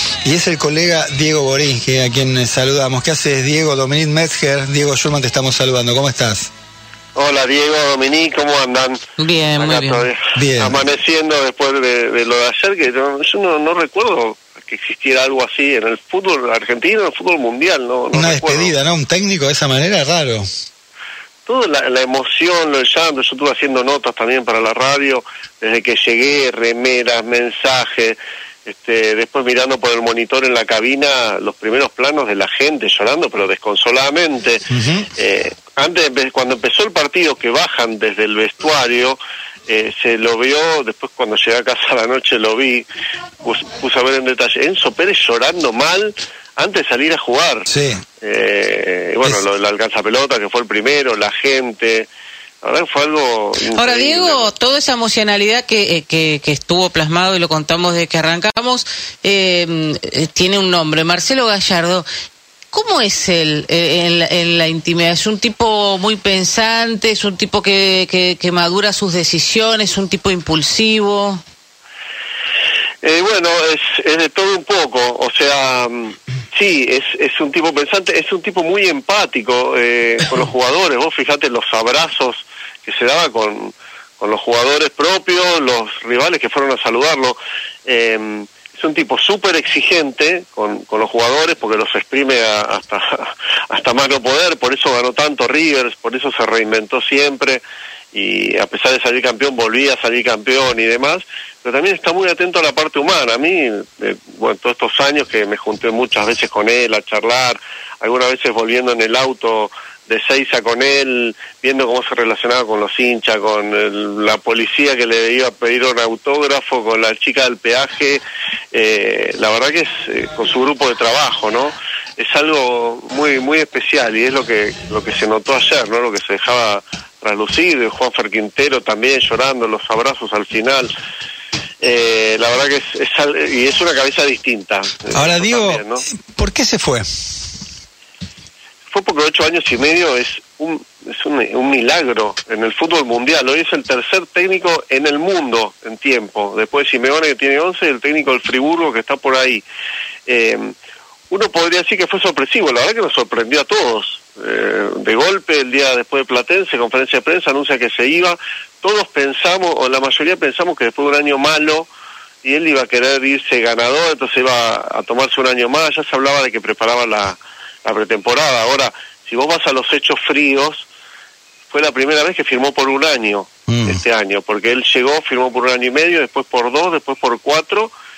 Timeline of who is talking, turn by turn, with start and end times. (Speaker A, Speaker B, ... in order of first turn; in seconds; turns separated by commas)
Speaker A: 0.2-6.5, Speaker B: 7.2-9.0, Speaker C: 9.2-10.1, Speaker B: 9.6-18.7, Speaker A: 10.4-10.8, Speaker A: 18.1-20.5, Speaker B: 21.5-34.6, Speaker A: 34.7-35.1, Speaker B: 35.2-42.9, Speaker B: 43.4-47.7, Speaker A: 47.7-48.0, Speaker B: 48.2-52.1, Speaker B: 52.6-54.5, Speaker C: 53.7-62.1, Speaker C: 62.7-71.4, Speaker B: 73.0-118.2, Speaker B: 118.7-130.9, Speaker B: 131.8-136.0, Speaker A: 135.1-137.1, Speaker B: 138.9-149.6, Speaker B: 150.3-150.8, Speaker B: 151.3-161.9, Speaker B: 162.4-170.9, Speaker B: 171.7-177.9, Speaker A: 173.7-174.0